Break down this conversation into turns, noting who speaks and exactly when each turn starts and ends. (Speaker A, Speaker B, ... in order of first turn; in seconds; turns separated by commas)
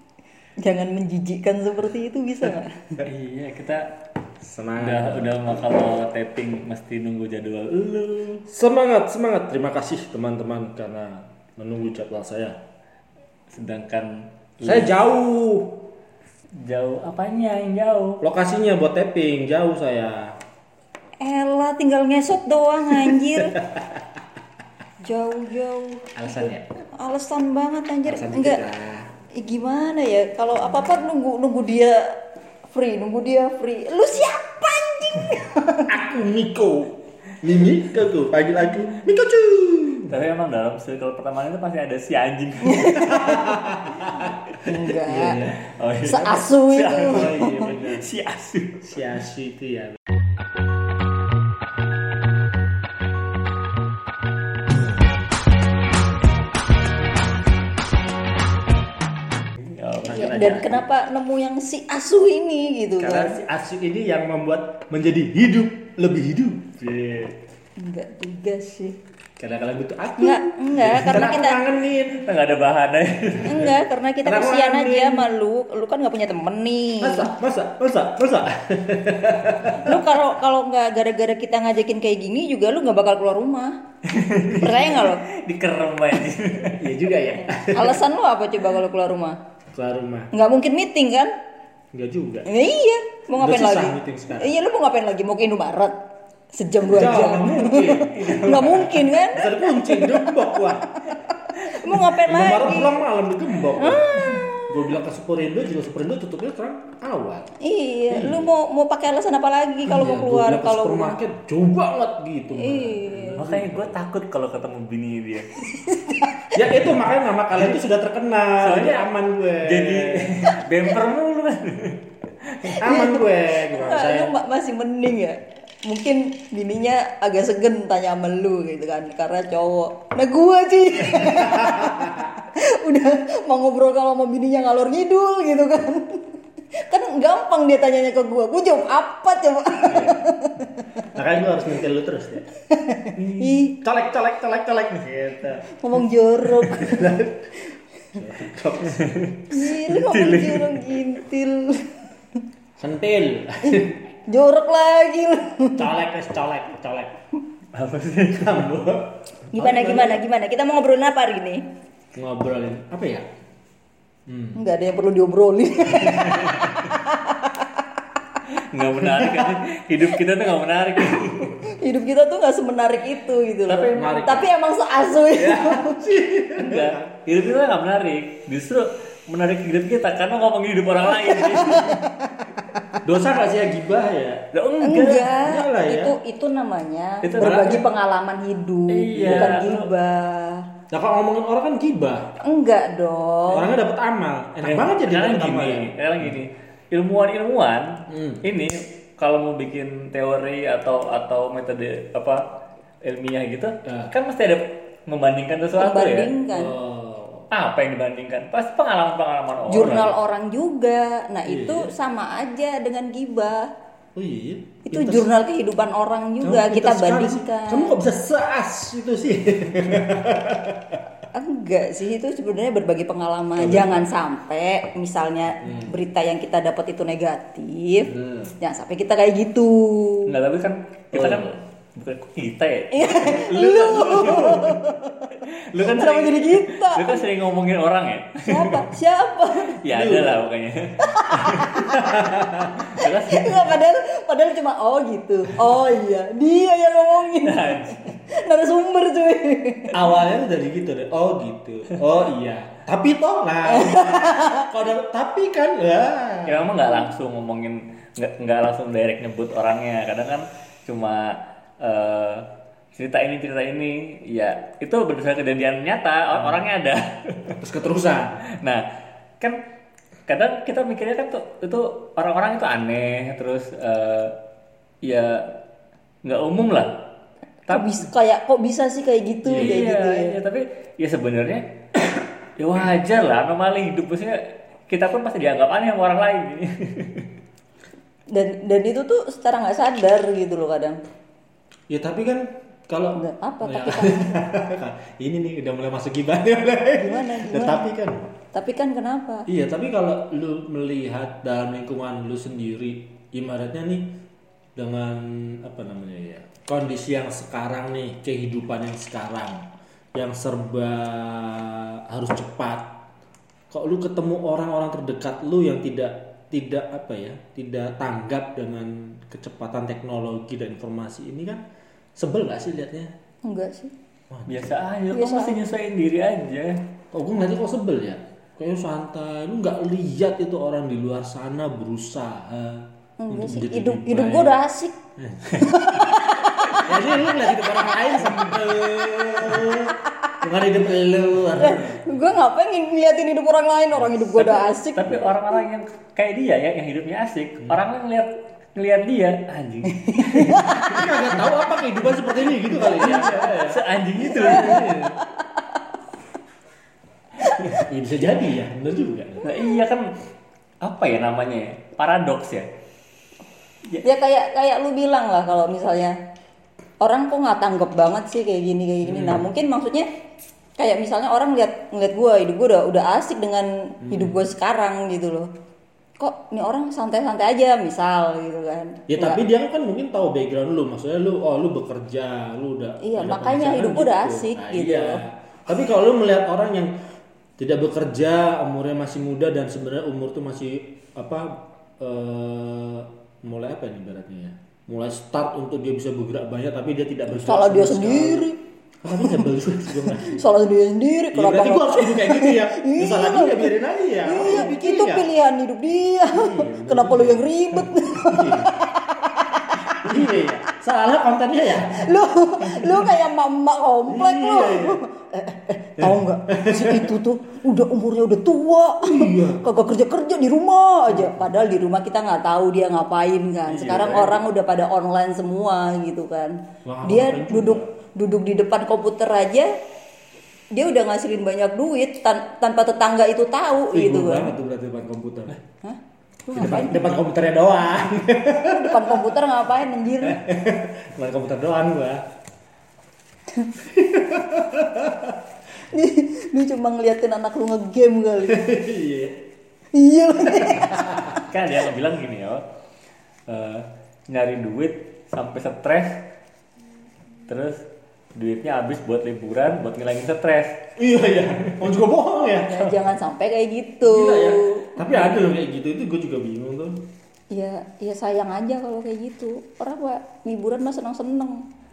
Speaker A: 0.6-3.0, Speaker B: 3.0-3.9, Speaker C: 4.4-5.6, Speaker B: 4.8-8.4, Speaker C: 8.5-12.6, Speaker B: 13.5-14.9, Speaker C: 14.6-15.7, Speaker B: 16.6-18.2, Speaker C: 18.2-20.4, Speaker A: 21.2-23.6, Speaker C: 22.9-24.0, Speaker A: 25.0-28.6, Speaker C: 26.1-26.7, Speaker C: 28.1-29.1, Speaker A: 29.3-35.7, Speaker C: 35.7-40.2, Speaker B: 40.1-43.4, Speaker A: 42.6-43.6, Speaker C: 43.0-44.4, Speaker A: 44.6-45.4, Speaker C: 44.9-45.7, Speaker B: 45.5-48.8, Speaker A: 46.0-47.7, Speaker C: 46.9-48.1, Speaker C: 48.8-50.0, Speaker B: 59.6-60.7, Speaker C: 60.0-60.8, Speaker A: 60.1-63.4, Speaker C: 63.0-67.3, Speaker A: 67.8-69.0, Speaker C: 69.4-72.3, Speaker A: 70.2-71.6, Speaker B: 72.2-73.6, Speaker C: 73.4-75.3, Speaker A: 73.4-77.3, Speaker C: 77.0-80.0, Speaker A: 79.8-83.8, Speaker B: 84.0-86.9, Speaker A: 84.5-85.2, Speaker C: 86.8-88.0, Speaker A: 87.5-89.4, Speaker C: 89.7-90.3, Speaker A: 90.3-91.3, Speaker C: 91.9-92.5, Speaker A: 92.4-95.9, Speaker C: 93.4-94.5, Speaker A: 96.5-103.0, Speaker C: 96.9-100.9, Speaker B: 97.8-99.0, Speaker C: 102.1-107.5, Speaker A: 103.7-104.9, Speaker A: 107.6-111.2, Speaker C: 108.1-108.5, Speaker C: 109.8-114.0, Speaker A: 112.5-113.4, Speaker B: 113.4-115.5, Speaker A: 115.6-116.5, Speaker C: 116.5-120.5, Speaker B: 118.6-122.6, Speaker C: 122.6-124.3, Speaker A: 122.7-136.3, Speaker C: 131.3-132.3, Speaker A: 136.9-141.1, Speaker C: 139.9-140.2, Speaker C: 141.1-142.4, Speaker A: 142.7-143.8, Speaker B: 143.2-143.5, Speaker C: 143.7-145.6, Speaker A: 145.7-147.1, Speaker C: 146.7-147.5, Speaker C: 148.1-149.1, Speaker B: 148.9-151.0, Speaker A: 149.5-152.1, Speaker C: 152.8-154.0, Speaker A: 153.6-155.9, Speaker C: 155.8-157.1, Speaker B: 157.7-158.7, Speaker C: 158.3-160.2, Speaker A: 159.5-161.6, Speaker C: 162.1-163.2, Speaker C: 164.3-164.6, Speaker A: 164.5-167.8, Speaker C: 165.9-166.6, Speaker B: 168.5-171.6, Speaker C: 169.1-169.6, Speaker A: 171.6-176.0, Speaker B: 173.7-174.4, Speaker C: 173.9-174.5, Speaker C: 175.3-177.2, Speaker B: 176.6-182.0, Speaker A: 181.0-182.3, Speaker C: 183.0-184.5, Speaker B: 184.5-185.3, Speaker A: 184.8-190.7, Speaker C: 185.4-186.1, Speaker B: 187.2-187.8, Speaker C: 187.4-187.8, Speaker B: 188.9-189.9, Speaker C: 189.1-189.7, Speaker C: 190.9-192.3, Speaker A: 192.4-193.7, Speaker C: 193.5-196.4, Speaker B: 194.6-202.4, Speaker C: 198.1-198.4, Speaker B: 203.0-206.3, Speaker C: 203.8-204.1, Speaker A: 205.8-206.8, Speaker C: 206.5-207.5, Speaker B: 207.5-210.1, Speaker A: 209.7-213.7, Speaker C: 211.4-211.9, Speaker C: 214.1-215.3, Speaker A: 214.8-217.9, Speaker C: 216.4-221.0, Speaker A: 221.3-230.3, Speaker C: 223.6-224.1, Speaker C: 225.6-225.9, Speaker C: 228.1-228.5, Speaker B: 230.3-234.8, Speaker C: 231.1-231.5, Speaker A: 232.9-237.2, Speaker C: 233.2-234.8, Speaker B: 235.4-238.9, Speaker A: 238.4-239.8, Speaker B: 239.8-241.8, Speaker C: 239.9-240.4, Speaker A: 241.0-242.3, Speaker C: 241.7-242.8, Speaker B: 242.8-243.8, Speaker A: 242.9-249.9, Speaker B: 247.4-248.1, Speaker C: 249.9-256.9, Speaker A: 253.7-254.7, Speaker B: 256.4-267.6, Speaker C: 266.3-266.7, Speaker C: 267.6-268.4, Speaker B: 268.6-268.8, Speaker B: 270.3-274.4, Speaker B: 275.0-275.5, Speaker B: 276.2-276.9, Speaker B: 277.7-278.0, Speaker A: 277.7-280.3, Speaker C: 279.4-279.8, Speaker B: 279.5-281.7, Speaker B: 282.6-287.3, Speaker A: 288.3-291.0, Speaker C: 291.9-298.3, Speaker A: 293.1-294.4, Speaker A: 297.0-297.9, Speaker A: 298.5-299.5, Speaker C: 299.5-304.1, Speaker C: 304.8-312.9, Speaker C: 313.7-321.6, Speaker C: 322.2-323.1, Speaker A: 323.4-323.9, Speaker C: 324.3-324.6, Speaker B: 324.5-326.8, Speaker A: 325.1-325.6, Speaker C: 327.1-334.6, Speaker A: 333.2-334.9, Speaker C: 335.2-335.7, Speaker A: 335.6-336.9, Speaker C: 336.7-342.1, Speaker A: 340.0-340.3, Speaker A: 341.6-345.3, Speaker B: 344.5-351.0, Speaker A: 349.9-351.1, Speaker C: 350.9-355.2, Speaker B: 352.9-355.0, Speaker A: 353.0-353.4, Speaker A: 354.2-355.8, Speaker A: 357.4-357.8, Speaker C: 357.7-359.5, Speaker B: 359.4-360.1, Speaker B: 360.8-362.7, Speaker A: 364.0-366.1, Speaker A: 367.0-370.1, Speaker C: 369.0-369.4, Speaker A: 370.8-375.5, Speaker C: 374.0-374.4, Speaker A: 376.2-379.4, Speaker C: 379.1-386.9, Speaker A: 383.0-385.2, Speaker C: 387.6-398.5, Speaker A: 397.3-398.6, Speaker C: 399.0-400.4, Speaker A: 400.2-410.3, Speaker C: 401.3-405.2, Speaker C: 406.3-408.7, Speaker C: 409.9-412.1, Speaker A: 411.9-429.7, Speaker C: 414.1-415.0, Speaker C: 416.0-417.1, Speaker C: 419.0-419.6, Speaker C: 421.1-421.4, Speaker B: 423.7-424.2, Speaker C: 423.8-424.3, Speaker C: 426.8-427.9, Speaker A: 430.7-434.5, Speaker C: 433.9-435.6, Speaker A: 435.8-437.1, Speaker C: 436.5-439.3, Speaker A: 438.6-440.4, Speaker C: 440.2-442.2, Speaker C: 443.9-445.4, Speaker A: 445.9-448.6, Speaker C: 448.4-449.4, Speaker A: 449.9-451.5, Speaker C: 450.6-451.3, Speaker B: 451.4-452.6, Speaker B: 453.5-456.2, Speaker B: 457.5-460.8, Speaker C: 461.0-462.9, Speaker A: 462.7-465.0, Speaker C: 464.0-467.0, Speaker A: 467.5-471.6